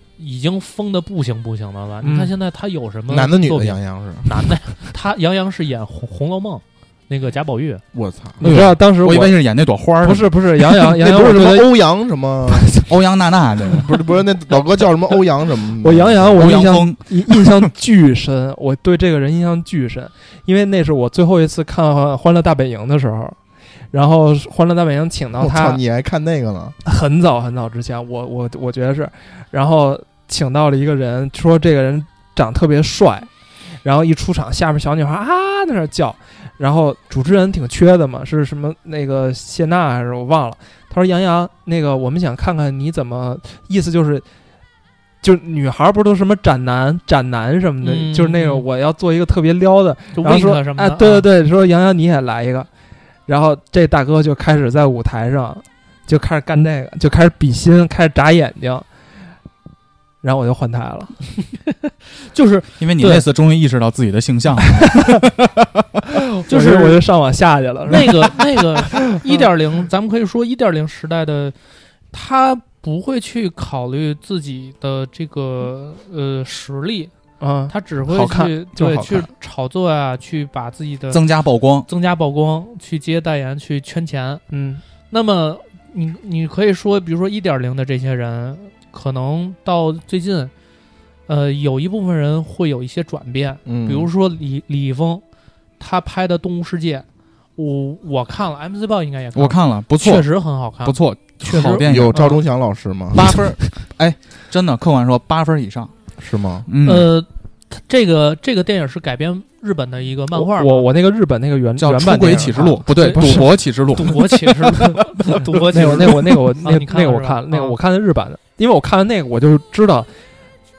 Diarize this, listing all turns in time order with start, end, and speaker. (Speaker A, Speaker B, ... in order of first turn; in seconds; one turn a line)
Speaker A: 0.2-7.8
Speaker B: 2.0-2.3
Speaker C: 3.1-4.3
Speaker C: 7.9-8.4
Speaker B: 8.4-9.4
Speaker D: 8.4-10.4
Speaker B: 10.0-11.7
Speaker C: 10.7-12.8
Speaker B: 12.5-12.9
Speaker D: 12.9-13.9
Speaker C: 13.8-16.6
Speaker B: 15.8-25.8
Speaker D: 16.4-17.6
Speaker C: 25.4-26.8
Speaker B: 26.9-44.2
Speaker B: 45.2-52.7
Speaker A: 47.8-48.7
Speaker A: 50.2-51.3
Speaker B: 53.3-58.9
Speaker B: 60.2-61.1
Speaker A: 61.9-63.2
Speaker D: 62.8-65.3
Speaker B: 64.8-65.2
Speaker B: 66.1-69.5
Speaker A: 66.5-67.0
Speaker A: 67.9-71.5
Speaker A: 72.1-77.1
Speaker B: 77.4-79.3
Speaker A: 77.7-81.2
Speaker D: 81.1-81.9
Speaker A: 81.9-84.4
Speaker B: 84.5-84.8
Speaker A: 85.1-90.5
Speaker A: 91.3-95.2
Speaker C: 93.7-94.1
Speaker A: 95.8-102.4
Speaker D: 99.4-102.2
Speaker C: 101.8-103.2
Speaker D: 103.1-105.9
Speaker C: 106.2-106.7
Speaker D: 106.7-107.1
Speaker A: 106.8-110.9
Speaker B: 110.3-114.2
Speaker D: 111.8-114.3
Speaker A: 114.0-117.8
Speaker B: 115.2-120.1